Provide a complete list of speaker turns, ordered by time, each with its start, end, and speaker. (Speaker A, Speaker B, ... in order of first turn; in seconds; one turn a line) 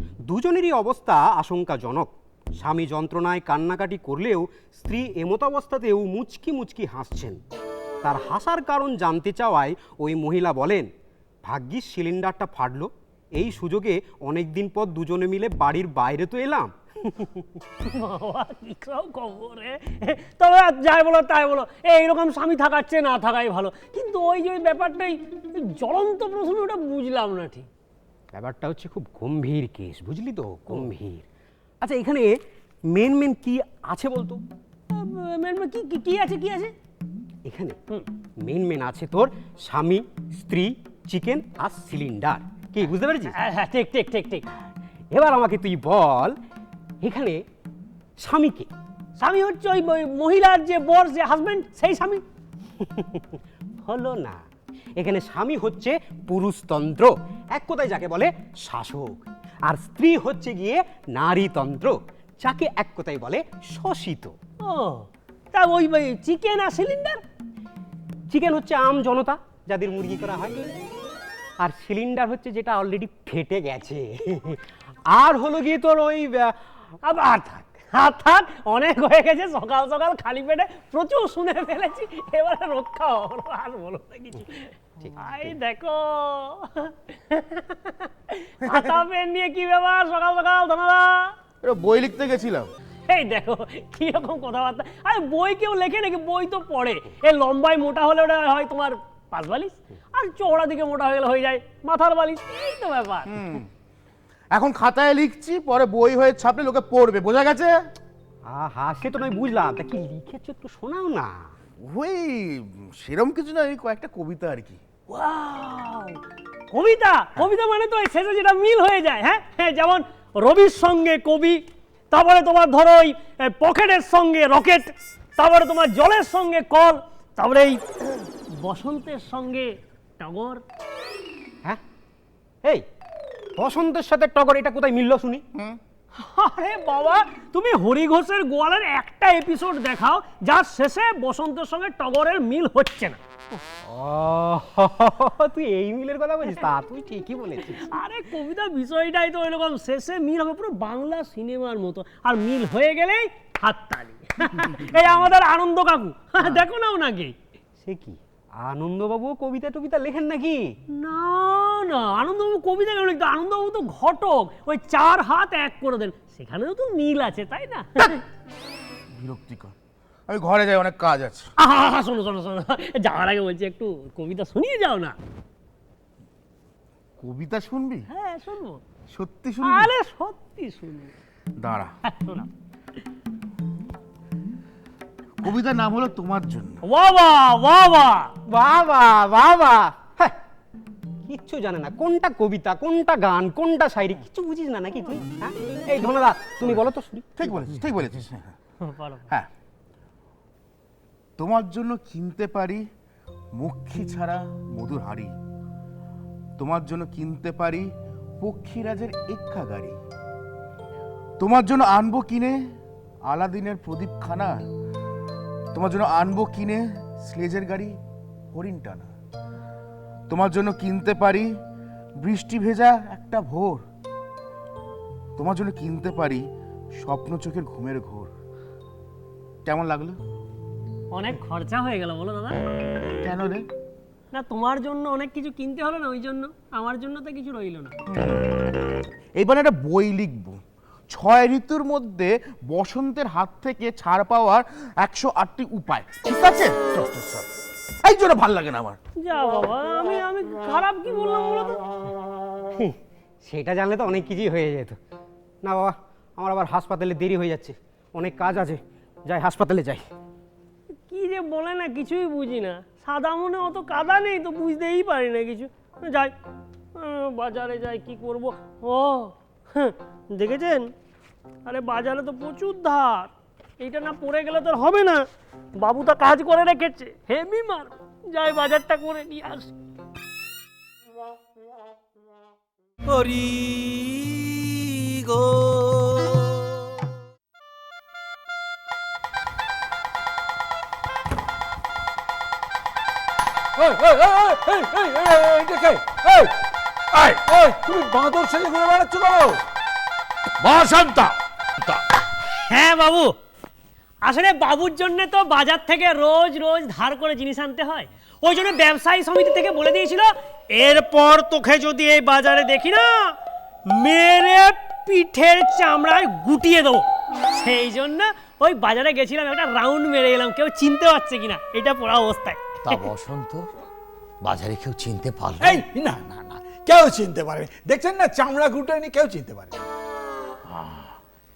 Speaker A: 0.3-7.4
Speaker A: 8.0-10.9
Speaker A: 11.5-17.4
Speaker B: 17.9-27.7
Speaker A: 28.3-31.3
Speaker A: 31.8-32.4
Speaker A: 32.9-34.4
Speaker B: 34.9-36.7
Speaker A: 37.5-37.8
Speaker A: 38.4-43.4
Speaker B: 43.4-44.5
Speaker A: 45.1-46.4
Speaker A: 47.0-47.4
Speaker A: 48.2-48.7
Speaker B: 49.2-52.2
Speaker A: 52.8-53.3
Speaker A: 53.8-54.4
Speaker A: 55.0-64.3
Speaker B: 64.6-67.2
Speaker A: 68.3-70.7
Speaker A: 71.6-74.6
Speaker A: 75.1-76.5
Speaker B: 77.0-91.3
Speaker C: 88.7-89.0
Speaker C: 91.6-92.7
Speaker B: 93.1-103.3
Speaker C: 103.3-103.7
Speaker C: 104.5-107.9
Speaker A: 108.5-111.5
Speaker C: 111.8-114.8
Speaker B: 115.1-116.2
Speaker B: 116.7-130.6
Speaker A: 133.6-135.4
Speaker B: 136.2-143.2
Speaker A: 143.8-147.9
Speaker B: 147.9-157.3
Speaker A: 157.8-160.7
Speaker B: 160.9-168.2
Speaker C: 169.1-169.8
Speaker C: 170.3-171.5
Speaker B: 171.6-175.2
Speaker C: 177.2-178.1
Speaker B: 178.1-178.8
Speaker C: 179.1-179.9
Speaker B: 179.6-181.1
Speaker C: 181.6-181.9
Speaker B: 182.1-182.5
Speaker C: 185.4-186.8
Speaker B: 186.8-188.3
Speaker A: 188.5-190.4
Speaker A: 191.2-197.3
Speaker C: 197.4-198.6
Speaker B: 198.8-199.3
Speaker C: 201.4-202.9
Speaker C: 203.6-205.3
Speaker C: 206.6-210.0
Speaker C: 211.4-212.7
Speaker C: 213.2-214.7
Speaker C: 215.7-218.0
Speaker C: 218.5-219.1
Speaker C: 220.3-221.5
Speaker C: 222.2-223.8
Speaker C: 225.4-228.3
Speaker C: 229.7-230.2
Speaker B: 231.1-232.6
Speaker C: 233.2-233.7
Speaker B: 234.3-238.0
Speaker C: 238.1-238.7
Speaker C: 239.4-247.5
Speaker C: 248.0-249.0
Speaker B: 249.2-251.9
Speaker A: 252.8-255.0
Speaker A: 255.6-260.1
Speaker B: 261.0-266.3
Speaker B: 267.0-270.9
Speaker B: 271.6-275.2
Speaker B: 275.8-279.7
Speaker D: 283.1-286.5
Speaker E: 293.8-296.6
Speaker F: 297.1-297.4
Speaker E: 297.4-299.6
Speaker F: 300.6-302.0
Speaker B: 302.7-303.4
Speaker B: 304.2-313.3
Speaker B: 313.9-323.0
Speaker F: 322.8-323.7
Speaker F: 324.4-325.8
Speaker E: 325.6-329.9
Speaker F: 330.7-331.1